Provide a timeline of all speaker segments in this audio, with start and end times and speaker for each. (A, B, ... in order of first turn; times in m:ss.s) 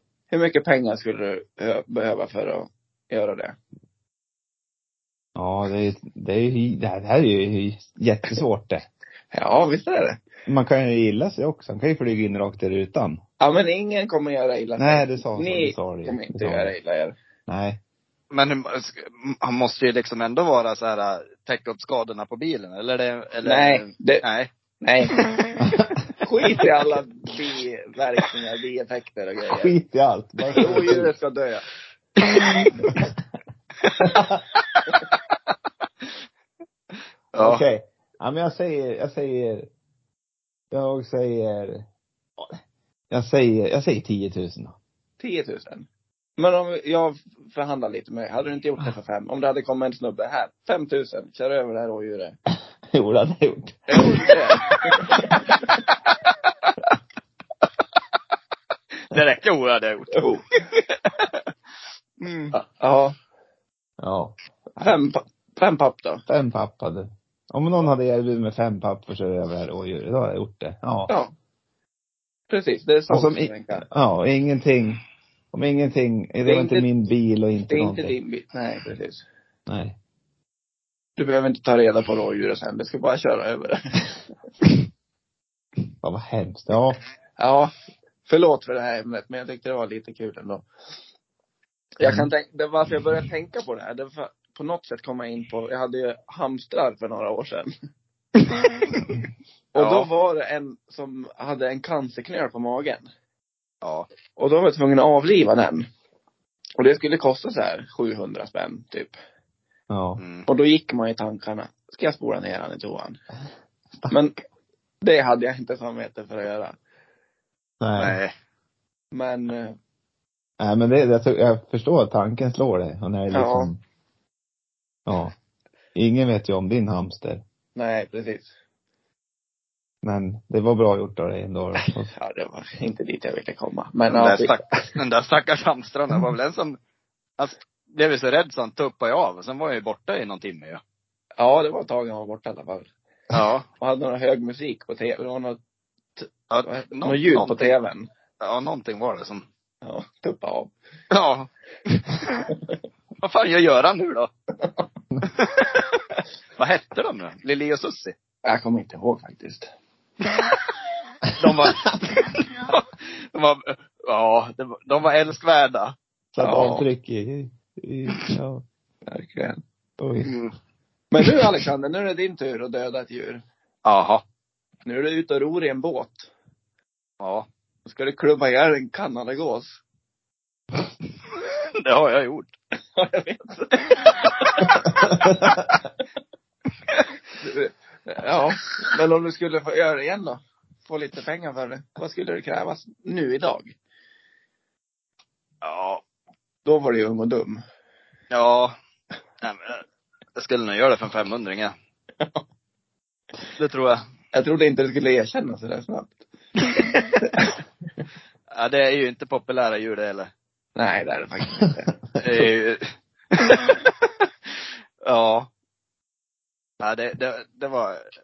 0:00.3-0:03.6 A
0:05.4-0:08.8 B
0:09.3-0:10.2 A
0:10.5-0:13.2 B
0:13.4-0:17.1 A
0:14.8-0:16.7 B
0:17.5-0:17.8 B
0:18.3-0:24.5 C
0:23.4-0:24.2 A
0:24.8-0:25.1 A
0:25.6-0:26.0 B
0:26.2-0:29.7 A
0:29.5-0:31.1 B
0:30.5-0:31.6 A
0:32.3-0:32.7 C
0:34.1-0:34.4 B
0:34.7-0:34.9 C
0:37.3-0:37.6 C
0:37.4-0:39.7 B
0:40.7-0:41.8 B
0:43.1-0:44.8 B
0:45.2-0:45.9 A
0:46.4-0:52.4 A
0:52.9-0:54.0 B
0:53.9-0:55.5 A
0:59.1-1:01.3 C
1:00.1-1:00.4 A
1:02.2-1:02.5 C
1:02.5-1:03.1 A
1:04.0-1:04.3 B
1:04.8-1:06.2 A
1:06.3-1:11.1 B
1:11.1-1:11.3 A
1:12.5-1:13.8 A
1:13.1-1:15.0 B
1:15.5-1:18.1 B
1:16.4-1:16.9 A
1:17.7-1:19.2 A
1:19.7-1:20.0 B
1:21.2-1:24.1 A
1:26.0-1:27.0 B
1:27.4-1:27.7 A
1:28.2-1:30.6 A
1:32.0-1:37.7 A
1:39.7-1:43.1 A
1:39.8-1:40.1 C
1:43.8-1:44.1 C
1:44.4-1:45.9 A
1:46.8-1:49.1 A
1:49.9-1:50.2 B
1:50.2-1:50.5 C
1:50.5-1:53.2 A
1:55.0-1:56.8 A
1:57.8-1:58.2 B
1:58.0-1:58.3 C
1:59.1-1:59.8 A
2:00.6-2:03.8 B
2:03.3-2:03.7 A
2:05.0-2:05.3 B
2:05.9-2:07.4 B
2:07.7-2:08.5 A
2:10.0-2:12.1 B
2:12.1-2:14.6 A
2:14.1-2:16.8 C
2:17.4-2:20.8 C
2:21.4-2:22.9 A
2:23.3-2:23.6 C
2:23.8-2:25.6 A
2:26.2-2:28.1 A
2:26.5-2:27.7 C
2:28.4-2:29.4 C
2:29.8-2:30.7 A
2:31.1-2:32.5 C
2:33.2-2:34.3 C
2:35.2-2:36.0 C
2:36.6-2:38.1 C
2:38.4-2:39.7 A
2:41.4-2:45.9 C
2:46.3-2:48.6 B
2:46.4-2:46.8 A
2:49.1-2:49.6 A
2:50.0-2:50.3 B
2:50.2-2:50.5 C
2:51.1-2:53.4 A
2:53.8-2:54.2 C
2:54.8-2:56.3 A
2:57.2-2:57.4 C
2:57.8-2:59.8 A
3:01.8-3:02.5 C
3:03.0-3:05.2 A
3:07.4-3:13.7 A
3:15.6-3:16.0 C
3:16.6-3:17.6 A
3:18.3-3:18.8 C
3:19.4-3:19.8 C
3:20.4-3:21.7 C
3:23.6-3:24.0 C
3:24.3-3:26.2 A
3:27.2-3:27.5 A
3:28.5-3:30.3 C
3:30.8-3:31.9 A
3:32.2-3:34.3 C
3:35.0-3:35.5 C
3:36.8-3:38.0 C